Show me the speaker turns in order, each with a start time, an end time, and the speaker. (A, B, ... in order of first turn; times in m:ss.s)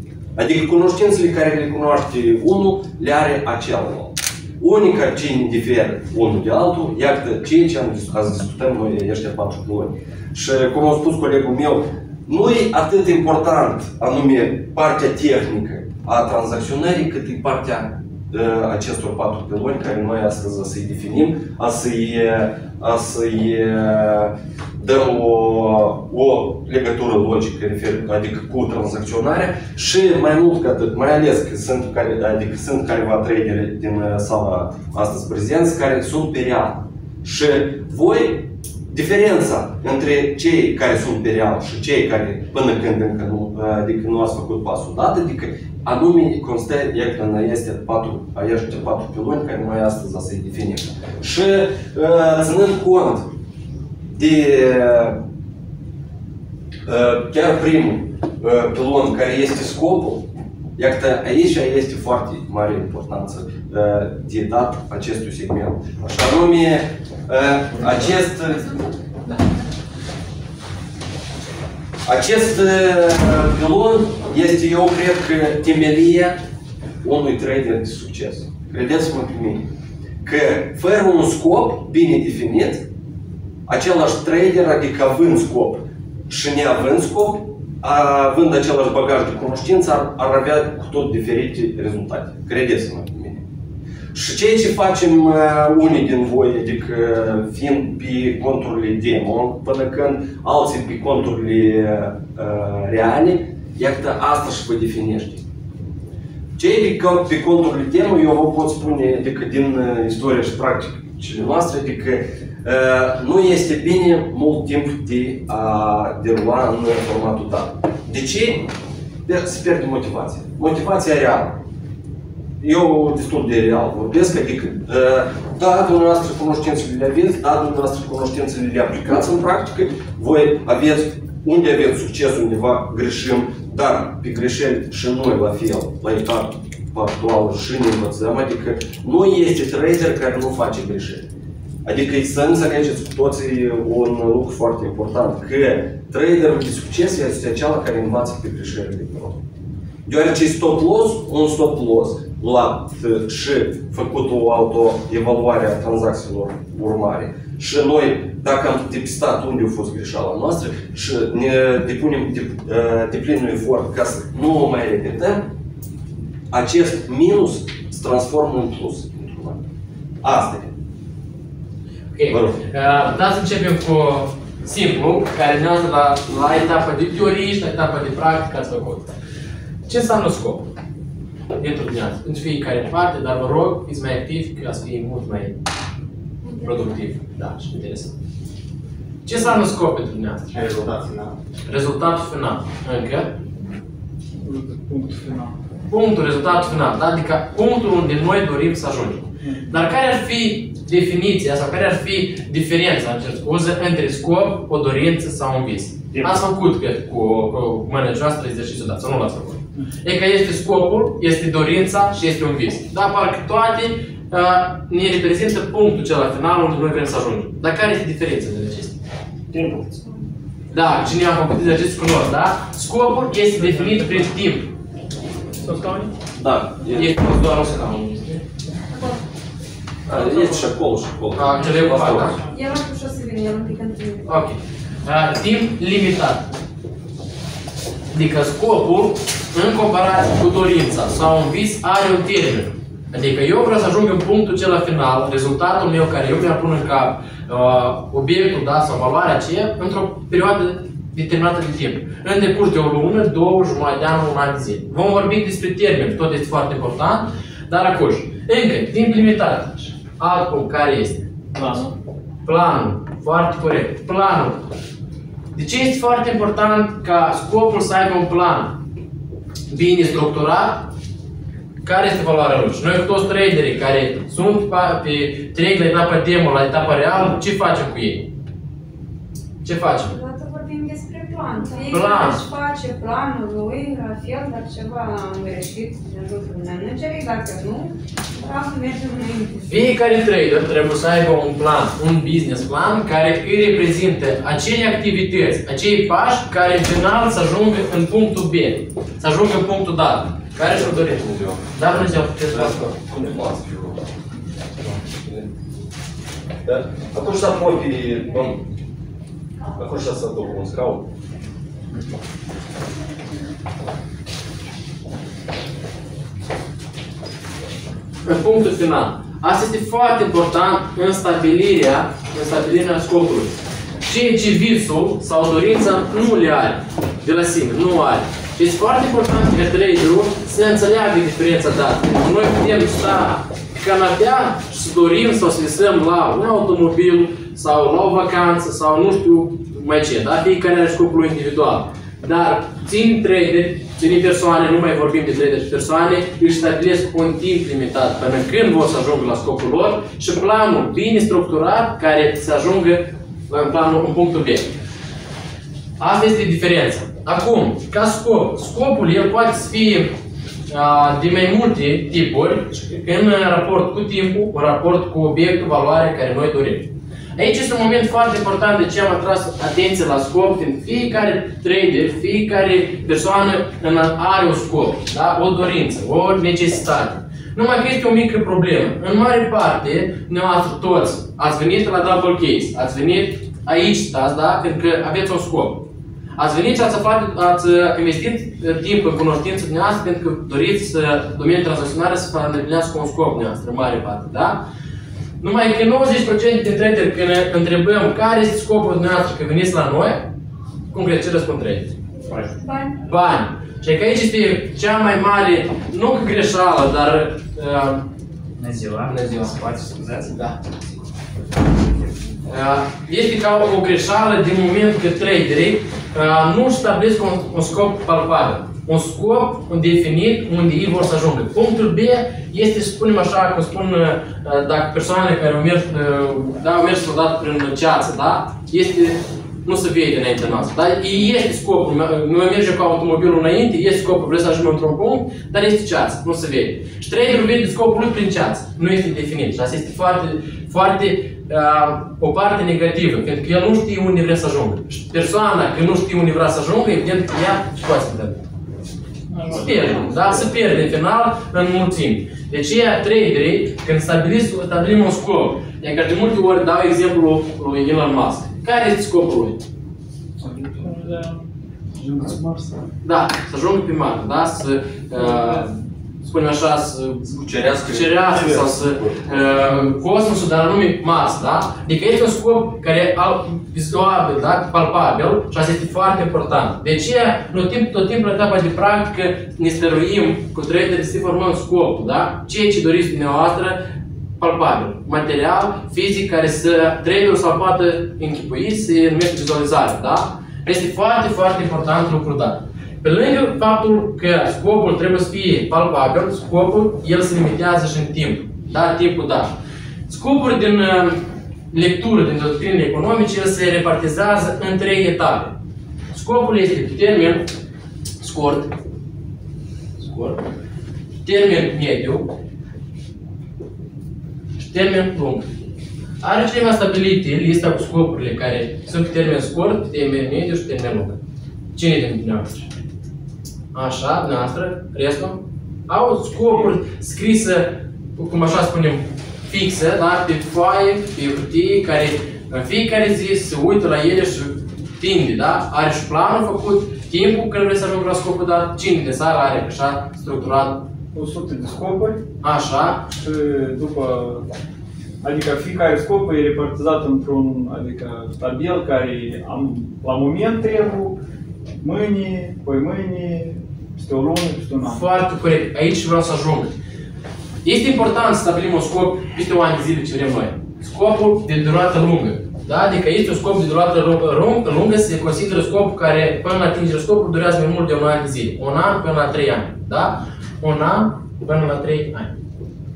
0:00.4-0:53.3 A
0:54.1-0:55.2 A
0:56.8-1:08.8 A
1:12.0-1:16.4 A
1:17.0-1:19.7 A
1:20.2-1:22.8 A
1:23.7-1:33.4 A
1:34.1-1:45.4 A
1:46.6-1:58.7 A
1:59.2-2:01.6 A
2:02.6-2:21.2 A
2:21.8-2:29.4 A
2:30.0-2:45.4 A
2:46.5-2:49.6 A
2:50.2-2:50.7 A
2:52.1-2:59.1 B
2:52.3-2:52.6 A
2:59.9-3:00.7 B
3:01.5-3:05.6 B
3:06.6-3:08.1 B
3:09.2-3:10.8 B
3:10.6-3:11.3 C
3:11.7-3:13.3 B
3:14.4-3:15.5 D
3:15.9-3:39.0 B
3:39.5-3:39.8 C
3:40.7-3:44.7 B
3:45.6-3:46.1 B
3:46.3-3:47.3 A
3:46.9-3:48.4 B
3:48.9-3:49.2 E
3:50.0-3:52.4 A
3:50.1-3:50.4 B
3:51.3-3:52.4 B
3:52.5-3:54.3 E
3:54.2-3:56.5 B
3:58.1-4:21.9 B
4:22.4-4:24.7 B
4:25.5-4:28.8 B
4:29.7-4:30.9 B
4:31.8-4:38.3 B
4:39.6-4:40.2 B
4:40.1-4:49.7 E
4:41.9-4:42.4 B
4:49.6-5:02.9 B
5:00.6-5:02.0 A
5:02.5-5:04.0 A
5:05.0-5:05.5 A
5:06.6-5:08.6 A
5:09.7-5:11.1 A
5:18.2-5:23.5 B
5:24.0-5:54.7 B
5:56.0-6:00.1 B
6:00.7-6:34.6 B
6:35.4-6:40.3 B
6:40.9-6:41.9 B
6:42.2-6:42.9 E
6:43.0-6:48.0 B
6:48.6-6:50.0 C
6:49.1-6:50.5 B
6:52.5-7:28.4 B
7:29.3-7:30.0 D
7:29.5-7:39.6 B
7:40.4-7:41.4 D
7:42.0-7:42.3 D
7:42.2-7:42.8 C
7:43.0-8:03.8 B
7:47.3-7:49.5 A
8:04.4-8:19.5 B
8:20.1-8:25.5 B
8:26.1-8:27.5 B
8:28.2-8:28.7 B
8:30.0-8:30.4 B
8:31.2-8:32.3 B
8:34.6-8:35.5 B
8:36.2-8:41.2 B
8:41.7-8:42.7 B
8:43.7-9:00.8 B
9:01.1-9:02.2 D
9:02.4-9:03.0 B
9:03.2-9:04.5 D
9:05.2-9:11.2 D
9:11.8-9:15.0 D
9:14.8-9:16.7 B
9:17.6-9:32.4 B